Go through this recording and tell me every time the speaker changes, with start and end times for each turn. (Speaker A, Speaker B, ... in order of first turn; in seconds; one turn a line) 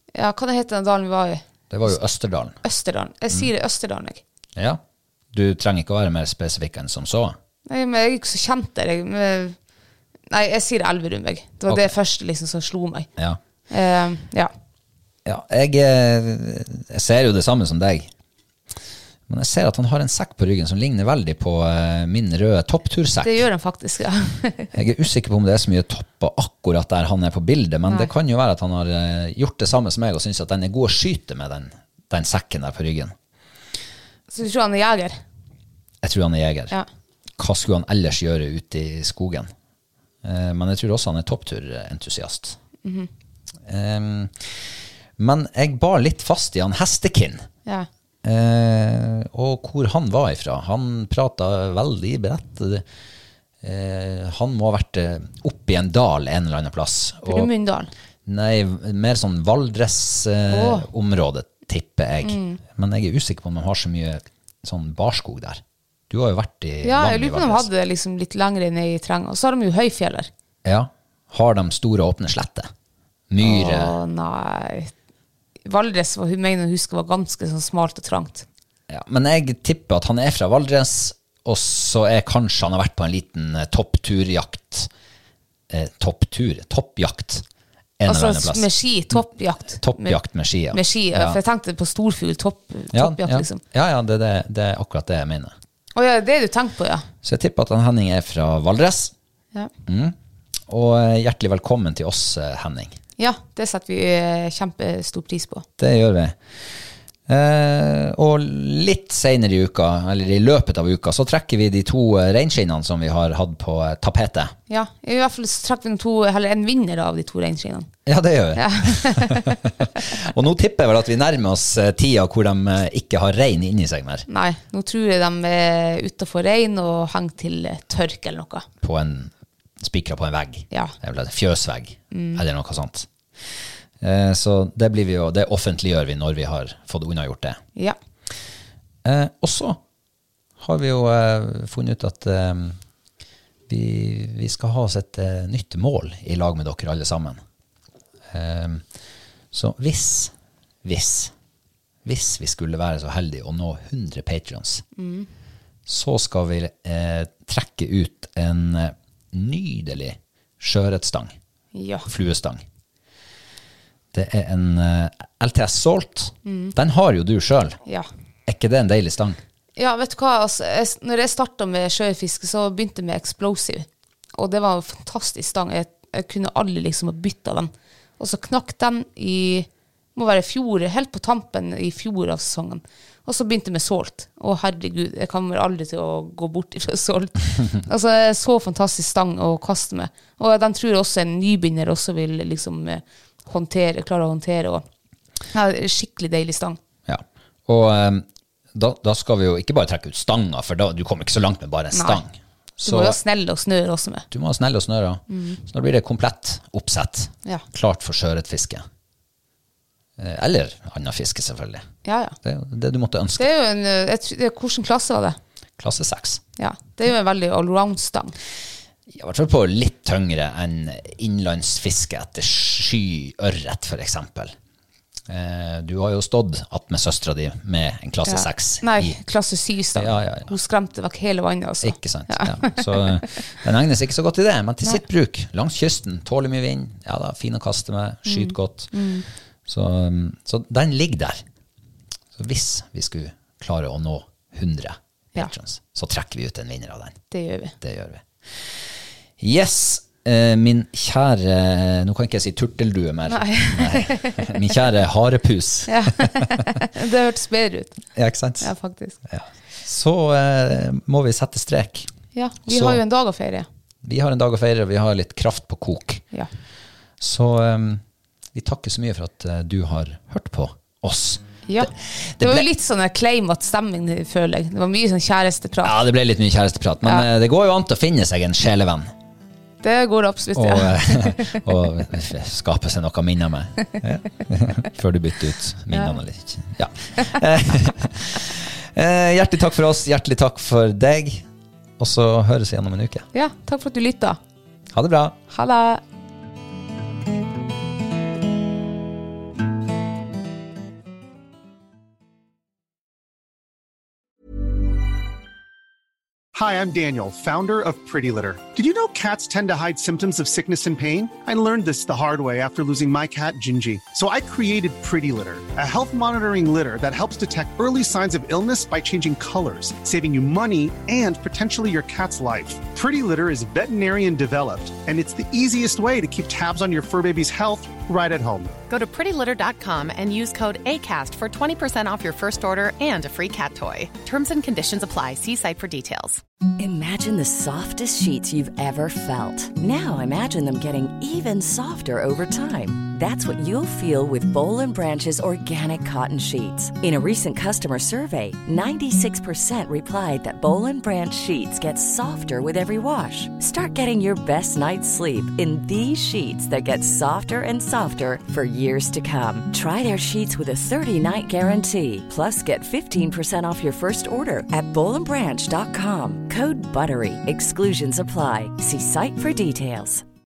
Speaker A: 0.1-2.0
Speaker B: 1.7-2.6
Speaker A: 2.6-4.2
Speaker B: 4.5-4.8
Speaker B: 5.3-7.3
Speaker A: 7.7-9.6
Speaker A: 10.3-13.1
Speaker B: 11.7-11.9
Speaker A: 13.7-14.5
Speaker B: 15.2-18.1
Speaker B: 19.3-23.4
Speaker A: 23.2-24.7
Speaker B: 24.7-33.1
Speaker A: 34.3-35.2
Speaker B: 36.0-36.8
Speaker B: 37.4-39.5
Speaker B: 40.2-42.6
Speaker A: 42.8-43.1
Speaker B: 43.7-47.5
Speaker B: 48.2-52.8
Speaker B: 53.6-57.5
Speaker A: 57.3-57.9
Speaker B: 58.2-67.7
Speaker A: 60.5-60.9
Speaker A: 62.2-62.6
Speaker A: 66.8-70.3
Speaker B: 70.6-72.7
Speaker B: 73.3-74.0
Speaker A: 73.4-74.9
Speaker A: 75.7-78.4
Speaker B: 78.9-84.9
Speaker B: 85.7-87.4
Speaker B: 88.0-91.4
Speaker A: 88.0-90.2
Speaker A: 90.7-93.6
Speaker B: 92.9-95.5
Speaker A: 95.9-97.1
Speaker B: 97.2-99.1
Speaker B: 99.8-100.2
Speaker B: 100.7-103.0
Speaker A: 103.2-105.6
Speaker B: 105.8-114.5
Speaker A: 114.7-117.9
Speaker B: 118.0-124.2
Speaker A: 118.5-119.5
Speaker A: 124.3-128.7
Speaker B: 128.8-137.6
Speaker A: 132.1-132.4
Speaker B: 139.0-139.8
Speaker B: 140.6-142.8
Speaker B: 143.7-147.4
Speaker B: 148.3-148.8
Speaker B: 149.5-151.3
Speaker B: 152.0-154.8
Speaker A: 154.9-155.3
Speaker B: 155.8-161.4
Speaker A: 161.7-162.1
Speaker B: 162.0-162.6
Speaker B: 164.1-167.8
Speaker A: 166.4-166.7
Speaker B: 168.4-169.4
Speaker A: 169.8-194.8
Speaker A: 195.5-196.8
Speaker B: 197.1-203.2
Speaker A: 201.9-202.2
Speaker A: 202.8-204.2
Speaker B: 204.3-208.8
Speaker A: 205.3-205.6
Speaker B: 210.2-211.8
Speaker A: 212.0-212.3
Speaker B: 212.4-213.5
Speaker A: 213.4-215.4
Speaker B: 215.8-216.4
Speaker A: 216.6-218.4
Speaker B: 219.1-224.6
Speaker B: 225.3-229.2
Speaker A: 228.2-233.3
Speaker B: 229.9-230.5
Speaker B: 231.8-238.9
Speaker A: 238.2-239.3
Speaker B: 239.7-241.4
Speaker B: 242.3-247.2
Speaker A: 247.3-247.7
Speaker B: 247.8-256.4
Speaker A: 253.3-254.7
Speaker A: 255.9-258.0
Speaker B: 258.1-258.7
Speaker A: 258.6-259.2
Speaker B: 259.3-262.1
Speaker A: 262.3-263.6
Speaker B: 262.6-263.0
Speaker B: 264.0-266.2
Speaker B: 267.2-268.0
Speaker B: 268.5-272.6
Speaker A: 271.7-276.0
Speaker B: 275.8-279.1
Speaker A: 279.8-281.6
Speaker B: 280.5-291.4
Speaker B: 292.0-293.3
Speaker A: 293.3-294.4
Speaker B: 294.9-295.4
Speaker A: 295.5-296.0
Speaker C: 306.5-328.7
Speaker D: 328.9-336.4
Speaker E: 336.8-370.2